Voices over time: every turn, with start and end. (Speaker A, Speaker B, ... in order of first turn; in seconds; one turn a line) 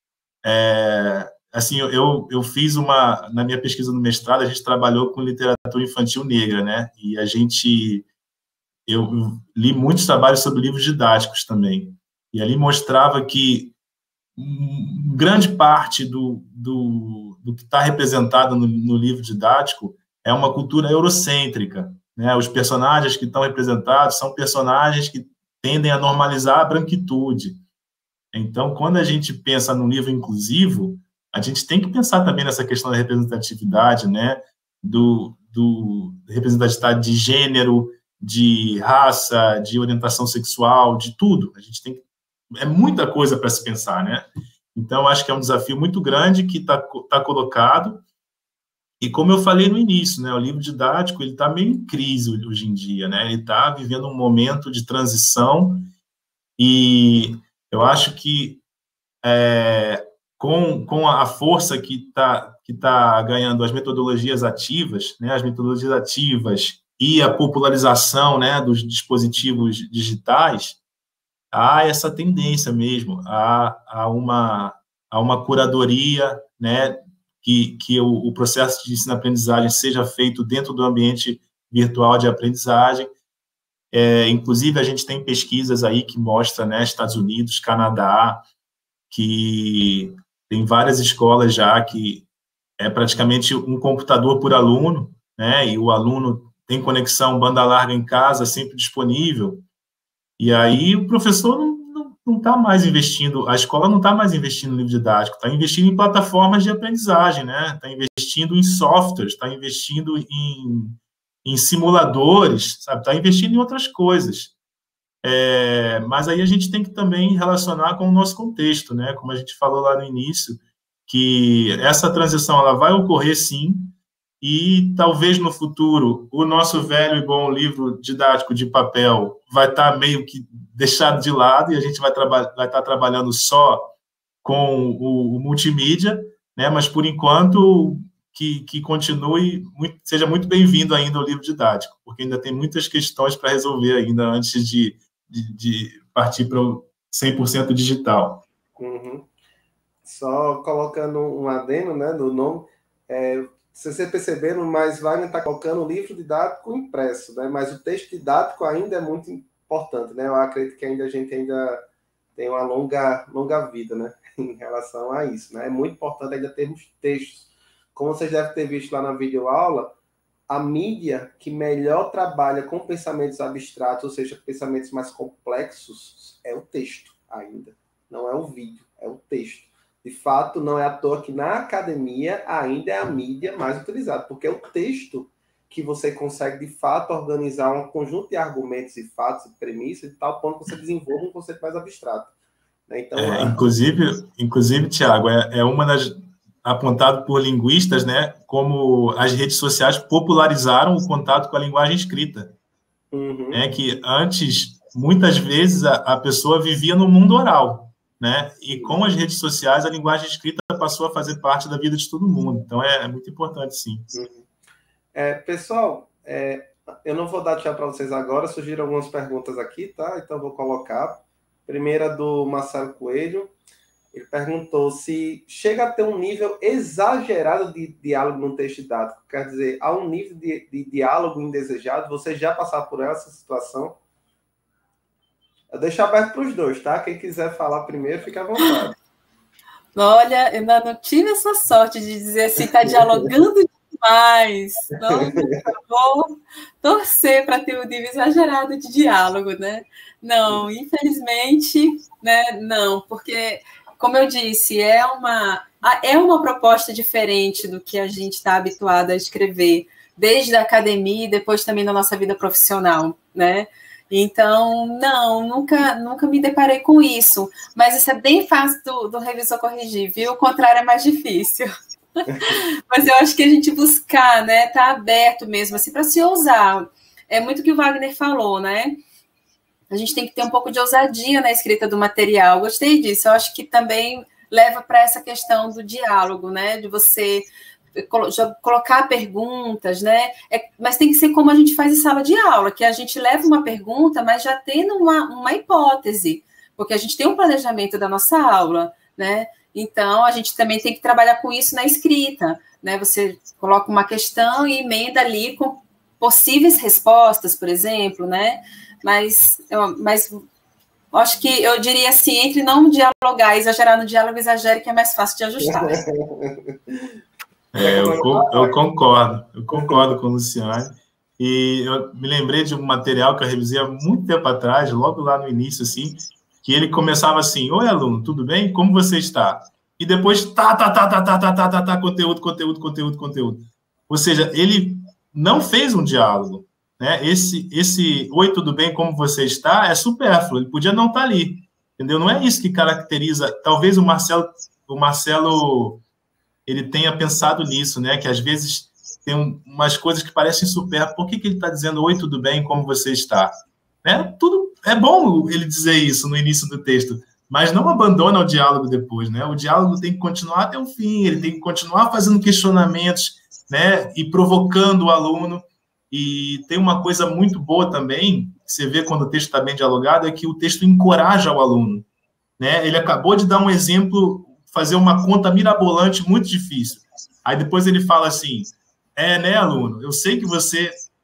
Speaker A: 0.4-8.1
Speaker A: 8.9-13.7
Speaker A: 14.4-27.6
Speaker A: 28.3-42.0
Speaker A: 42.6-48.0
Speaker A: 49.0-55.9
Speaker A: 56.6-58.6
Speaker A: 59.2-70.8
Speaker A: 71.5-83.1
Speaker A: 83.9-88.4
Speaker A: 89.1-92.3
Speaker A: 92.8-99.6
Speaker A: 100.4-114.5
Speaker A: 115.2-133.9
Speaker A: 134.4-148.4
Speaker B: 148.8-149.3
Speaker B: 150.0-161.8
Speaker B: 162.4-169.9
Speaker B: 170.5-192.3
Speaker B: 192.9-193.6
Speaker A: 193.2-202.5
Speaker B: 203.1-203.6
Speaker A: 203.5-214.1
Speaker B: 208.7-209.0
Speaker B: 214.1-214.5
Speaker B: 215.1-223.5
Speaker B: 224.1-234.0
Speaker B: 235.7-239.0
Speaker C: 239.9-271.7
Speaker B: 242.8-243.3
Speaker B: 245.0-245.7
Speaker C: 272.2-279.0
Speaker B: 272.3-272.6
Speaker C: 279.9-310.4
Speaker C: 311.1-316.0
Speaker B: 315.6-317.1
Speaker A: 317.7-346.0
Speaker B: 317.8-318.8
Speaker B: 319.7-320.1
Speaker A: 346.7-372.1
Speaker A: 372.6-380.9